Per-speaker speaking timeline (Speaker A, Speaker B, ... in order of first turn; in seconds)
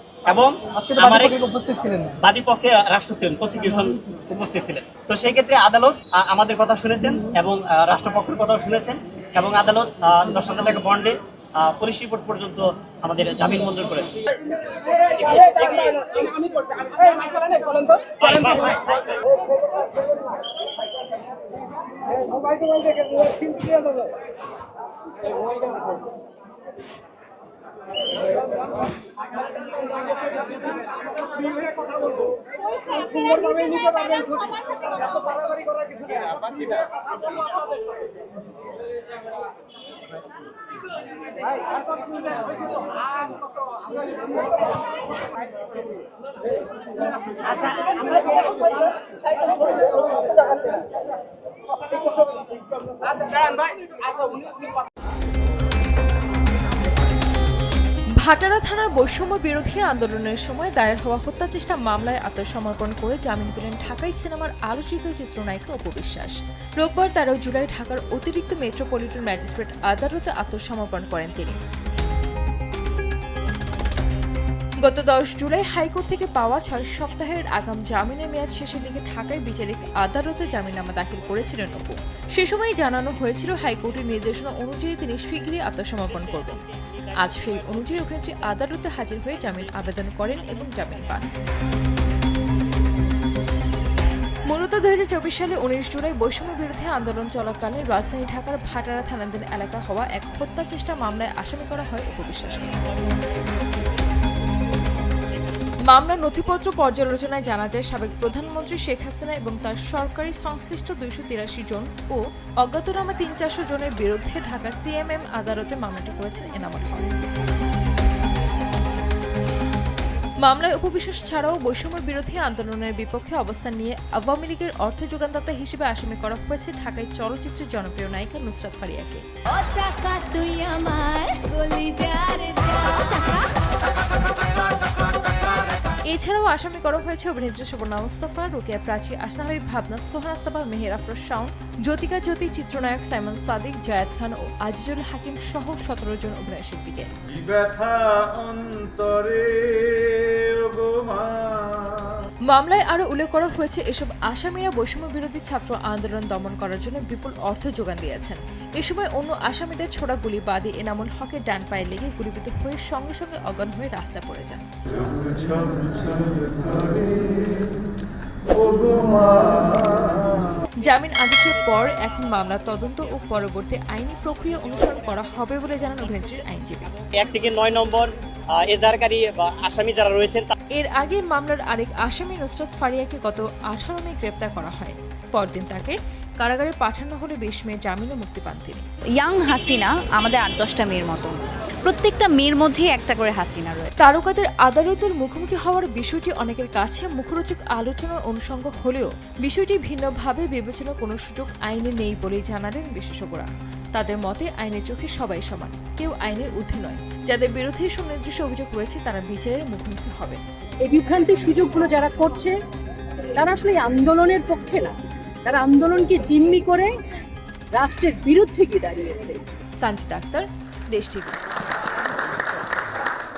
Speaker A: 0.3-1.4, 2.0-14.2, 15.2-16.0, 18.2-19.1, 86.4-87.1, 177.2-180.5
Speaker B: 58.2-71.6, 74.8-86.6, 87.2-91.3, 94.5-102.8, 105.9-117.3, 120.4-129.2, 136.1-147.1, 152.5-164.6, 170.8-176.9, 180.8-188.8, 194.0-210.4, 219.8-221.4
Speaker C: 129.5-133.5
Speaker D: 147.3-152.1, 165.0-167.7, 168.6-170.5
Speaker E: 189.2-193.9
Speaker F: 210.8-212.6, 213.3-216.9, 217.7-219.4